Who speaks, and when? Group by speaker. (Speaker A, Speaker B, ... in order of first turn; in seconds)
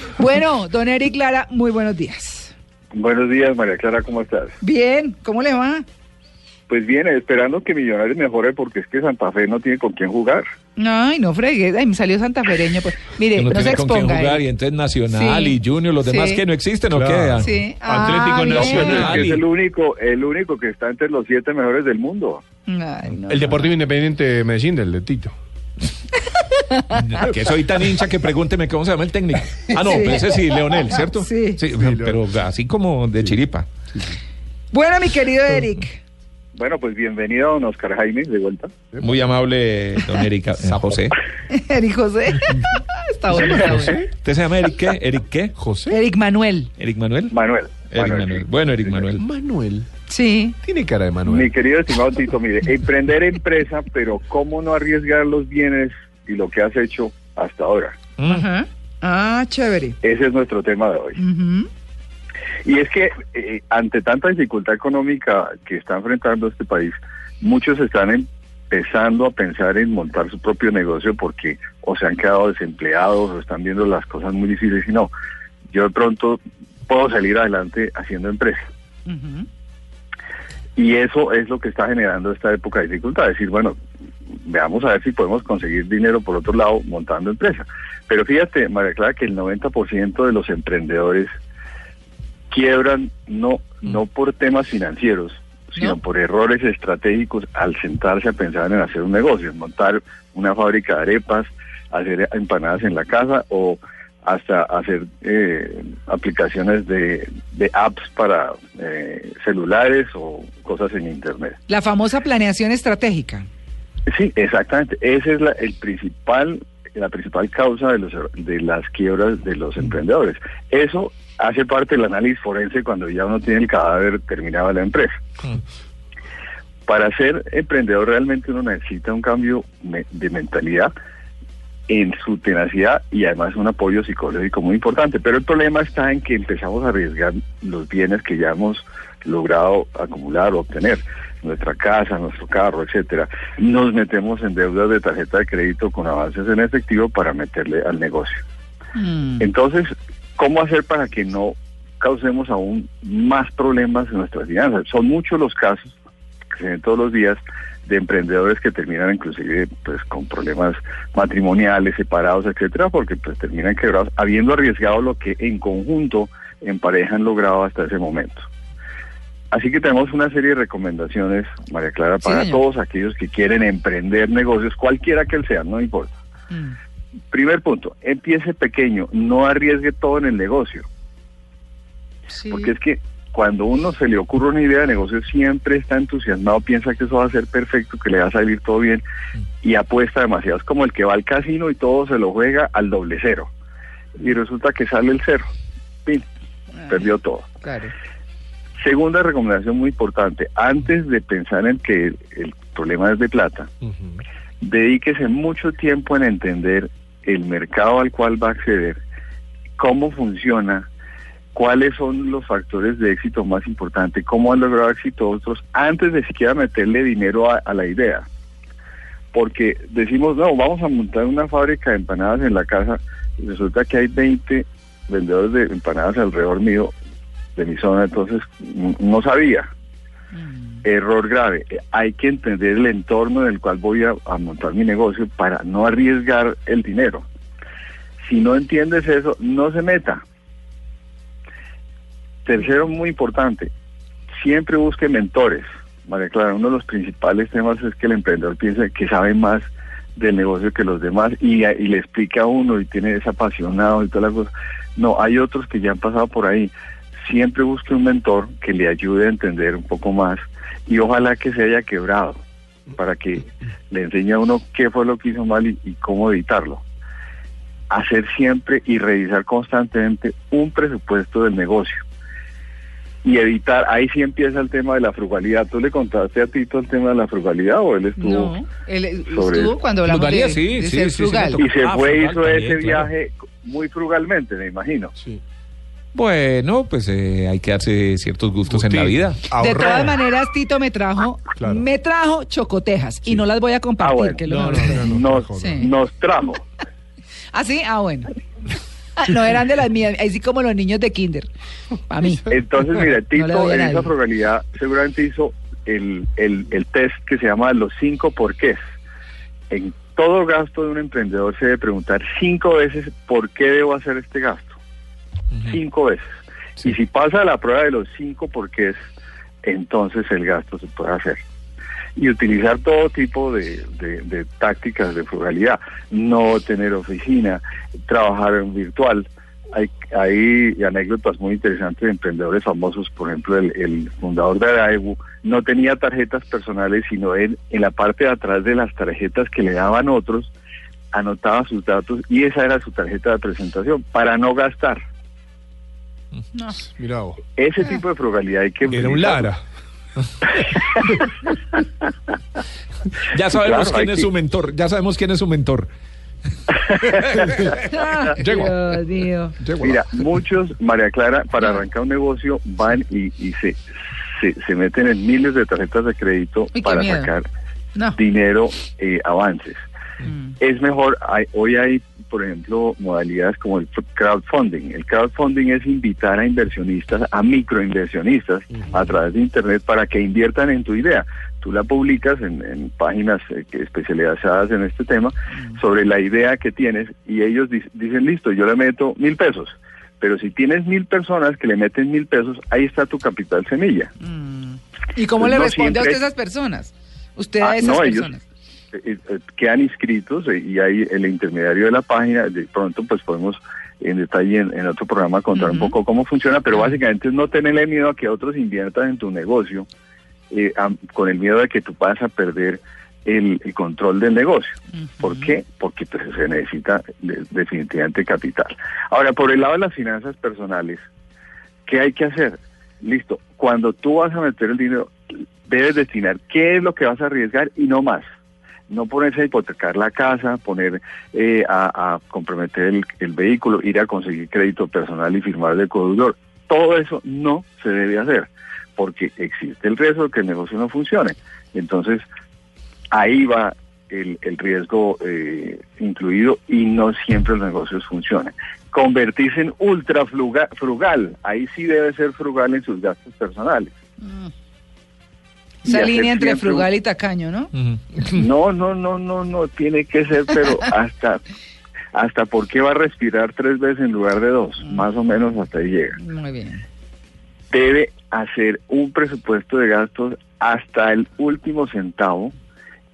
Speaker A: 0.2-2.5, 4.6-5.8, 10.8-14.4, 15.1-16.4, 17.4-19.0, 22.7-23.6, 26.4-27.2, 29.7-31.6, 34.7-36.0, 41.5-44.0, 45.9-46.7, 50.1-50.6, 58.3-60.0, 61.2-61.7, 79.1-79.5, 111.7-113.5, 148.9-149.5, 172.2-172.6, 176.5-176.8, 182.3-182.7, 197.6-197.9, 230.3-230.8, 278.2-281.6, 289.5-295.9, 297.5-298.4, 299.2-301.5, 302.1-302.6, 303.3-304.1, 346.6-346.8, 357.8-359.6, 366.7-367.3, 370.2-370.6, 394.2-398.4, 405.6-405.9, 414.9-415.5, 454.2-454.5, 455.8-457.7, 466.2-466.8
Speaker B: 2.9-4.6, 6.7-10.4, 18.4-22.4, 36.5-38.8, 47.3-49.1, 51.2-58.0, 60.0-61.2, 62.6-75.1, 75.7-78.7, 80.8-83.8, 84.4-91.3, 92.5-111.6, 114.1-125.2, 126.9-130.9, 131.9-148.4, 149.4-156.0, 156.5-168.5, 169.5-176.2, 177.3-180.9, 182.5-189.0, 189.6-193.5, 194.1-195.5, 196.8-197.5, 198.8-203.7, 204.6-209.0, 209.8-210.9, 211.5-218.2, 219.3-226.9, 227.6-229.7, 230.8-237.2, 238.2-240.2, 242.4-243.7, 244.4-262.4, 263.0-266.8, 267.9-272.0, 273.2-278.6, 279.3-279.8, 281.6-285.1, 294.0-296.6, 302.4-308.8, 309.7-314.8, 315.7-316.2, 316.8-319.0, 319.6-321.4, 322.1-340.5, 341.1-345.0, 347.6-349.5, 350.6-351.2, 353.5-354.3, 356.8-357.6, 359.8-367.5, 368.1-369.8, 370.6-394.1, 395.4-396.2, 397.6-398.3, 398.9-409.9, 410.5-421.1, 421.9-428.2, 428.9-442.2, 443.1-453.9, 455.9-456.9, 458.2-461.4, 462.1-466.2, 467.7-472.5
Speaker C: 13.3-17.5, 18.7-19.4, 26.9-33.7, 39.0-41.2, 43.6-45.5, 46.8-47.3, 47.9-49.2, 58.2-58.5, 280.1-283.1, 286.1-289.5, 353.3-355.9, 357.0-357.7, 457.8-458.0
Speaker D: 16.9-19.4, 23.3-25.4, 31.8-32.1, 43.4-44.1, 45.6-46.0, 49.2-49.9, 50.6-51.5, 288.7-290.2, 291.6-291.8, 294.5-295.8, 346.9-347.4, 348.9-349.5, 358.4-359.0, 359.6-360.0